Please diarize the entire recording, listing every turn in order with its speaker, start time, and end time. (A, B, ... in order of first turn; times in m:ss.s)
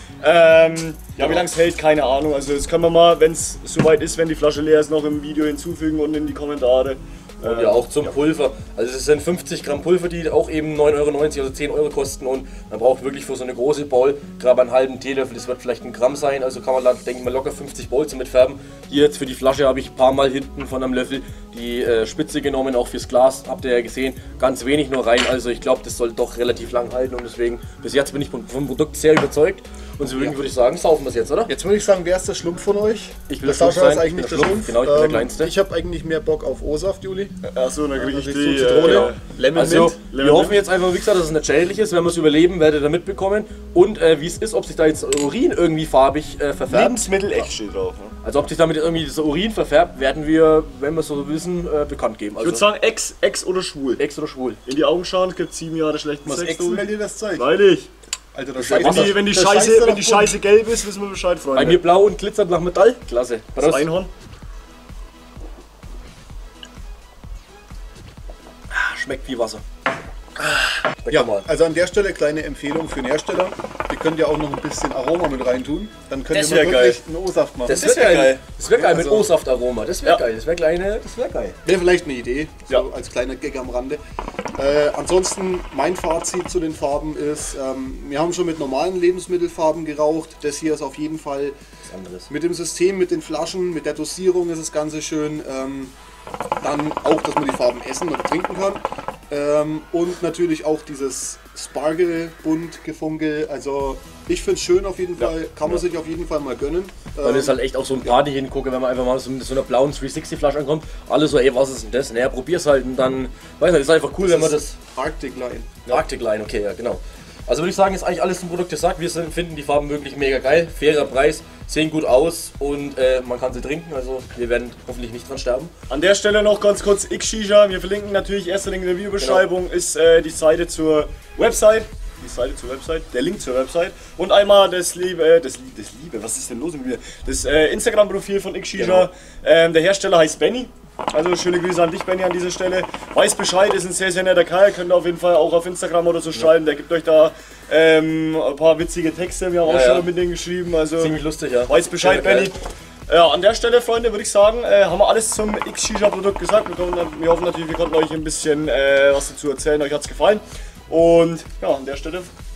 0:00.2-0:08.2 A
0:07.4-0:31.5 B
0:31.5-0:37.4 C
0:33.3-0:35.5 B
0:37.4-0:39.2 A
0:38.0-0:40.0 C
0:38.8-0:47.1 B
0:40.0-0:40.6 A
0:46.7-0:48.1 A
0:48.2-0:52.6 B
0:52.4-0:54.0 A
0:54.0-0:54.6 B
0:54.6-0:57.9 A
0:56.2-0:57.5 C
0:58.3-1:00.4 C
0:58.6-0:59.2 B
0:58.7-1:01.8 A
1:01.5-1:03.9 B
1:03.6-1:04.1 A
1:08.7-1:09.6 B
1:11.0-1:11.4 B
1:11.1-1:17.8 C
1:16.3-1:17.0 A
1:17.6-1:21.6 B
1:17.7-1:19.2 A
1:18.9-1:19.3 C
1:21.6-1:24.0 C
1:24.6-1:31.6 C
1:31.8-1:32.3 B
1:32.3-1:35.9 C
1:36.6-1:48.1 C
1:47.2-1:54.8 B
1:54.2-1:56.0 C
1:55.8-2:05.7 B
2:05.9-2:31.2 A
2:09.2-2:09.5 B
2:18.8-2:19.1 B
2:29.6-2:30.1 B
2:31.0-2:32.5 B
2:31.7-2:42.3 A